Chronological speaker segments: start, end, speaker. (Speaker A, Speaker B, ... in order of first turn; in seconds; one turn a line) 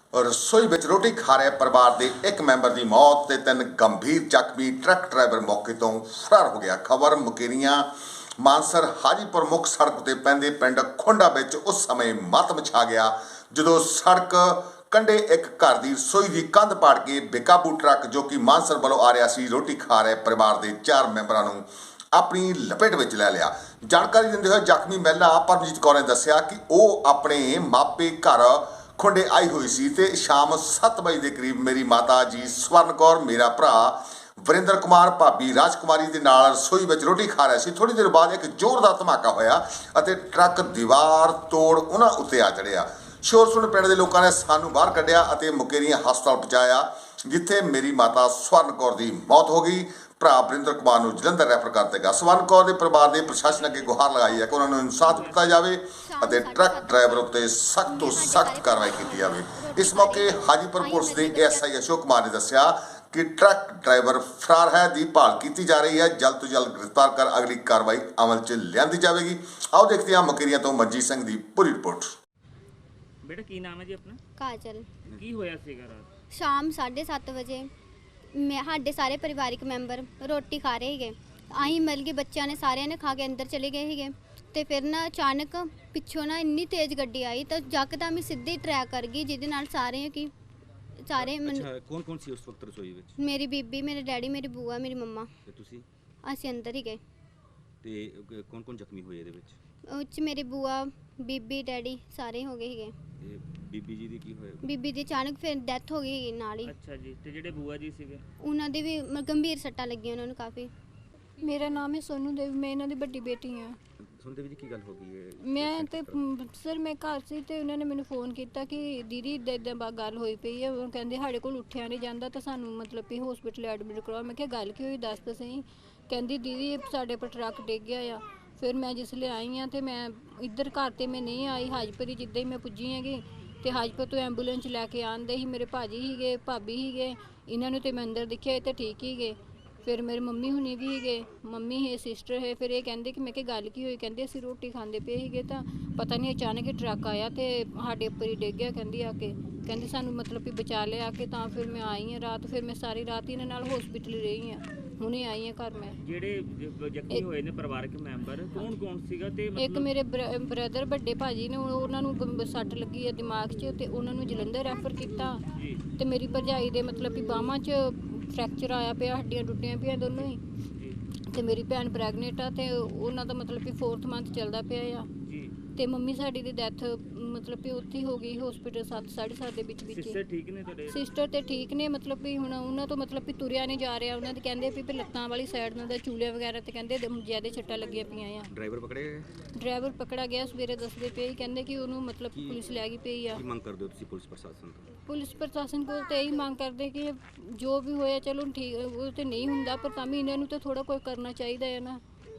Speaker A: 0.1-7.9
Speaker A: 8.4-21.6
Speaker A: 22.1-72.1
Speaker B: 53.3-55.5
Speaker C: 56.0-61.6
Speaker B: 73.2-74.2
Speaker C: 74.4-74.9
Speaker B: 75.1-76.1
Speaker C: 76.3-77.7
Speaker C: 78.3-90.3
Speaker C: 91.0-91.7
Speaker D: 91.2-93.1
Speaker C: 93.2-95.3
Speaker D: 95.4-95.9
Speaker C: 96.2-97.0
Speaker D: 97.8-99.6
Speaker C: 99.9-102.9
Speaker D: 103.2-104.7
Speaker C: 104.6-106.7
Speaker B: 106.6-108.2
Speaker C: 108.4-110.7
Speaker E: 111.4-113.8
Speaker D: 114.0-116.2
Speaker E: 115.4-156.0
Speaker B: 156.0-159.9
Speaker E: 159.6-170.4
Speaker B: 165.6-165.8
Speaker B: 170.1-171.0
Speaker E: 171.3-175.1
Speaker B: 175.2-175.6
Speaker E: 175.8-180.2
Speaker B: 179.8-181.0
Speaker E: 180.9-188.5
Speaker D: 188.5-189.3
Speaker E: 189.5-193.4
Speaker D: 192.3-192.6
Speaker D: 193.3-194.9
Speaker E: 195.1-202.0